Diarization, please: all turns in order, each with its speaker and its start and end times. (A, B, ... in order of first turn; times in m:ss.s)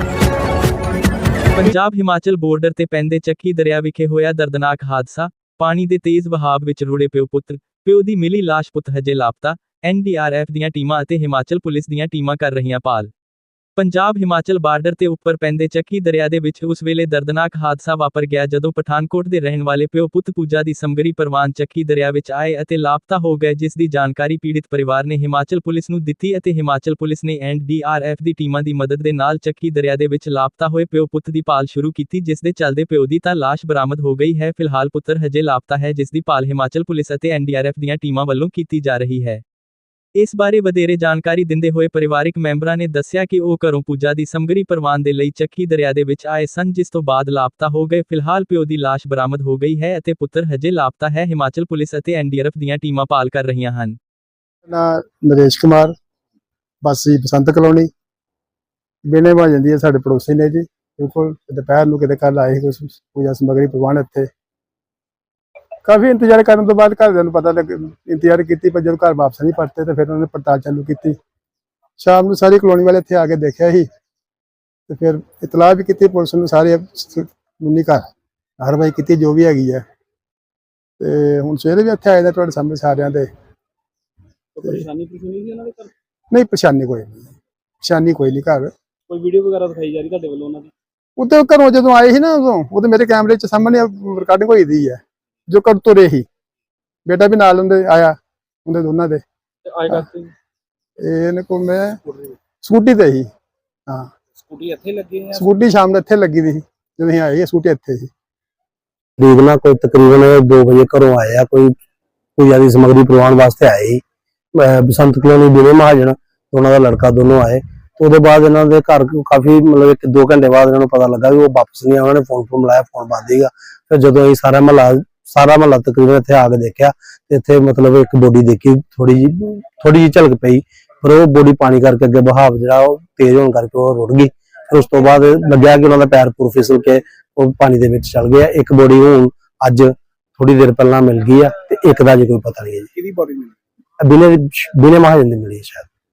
0:01.5-0:13.1 A
0:13.8-0:39.4 A
0:40.2-0:54.0 A
0:54.6-0:55.9 B
0:56.8-0:57.9 B
0:59.0-1:04.3 B
1:05.8-1:11.2 B
1:12.0-1:13.9 B
1:14.9-1:18.1 B
1:18.6-1:19.8 B
1:21.0-1:23.3 B
1:24.6-1:25.9 C
1:26.3-1:28.7 B
1:29.1-1:30.7 C
1:31.2-1:36.2 B
1:37.0-1:39.2 B
1:39.6-1:40.3 C
1:41.0-1:42.0 B
1:42.6-1:43.3 B
1:44.4-1:45.5 C
1:45.3-1:48.1 B
1:49.2-1:51.7 D
1:52.4-1:54.0 D
1:54.5-2:22.9 D
2:22.9-2:23.6 C
2:24.0-2:25.9 D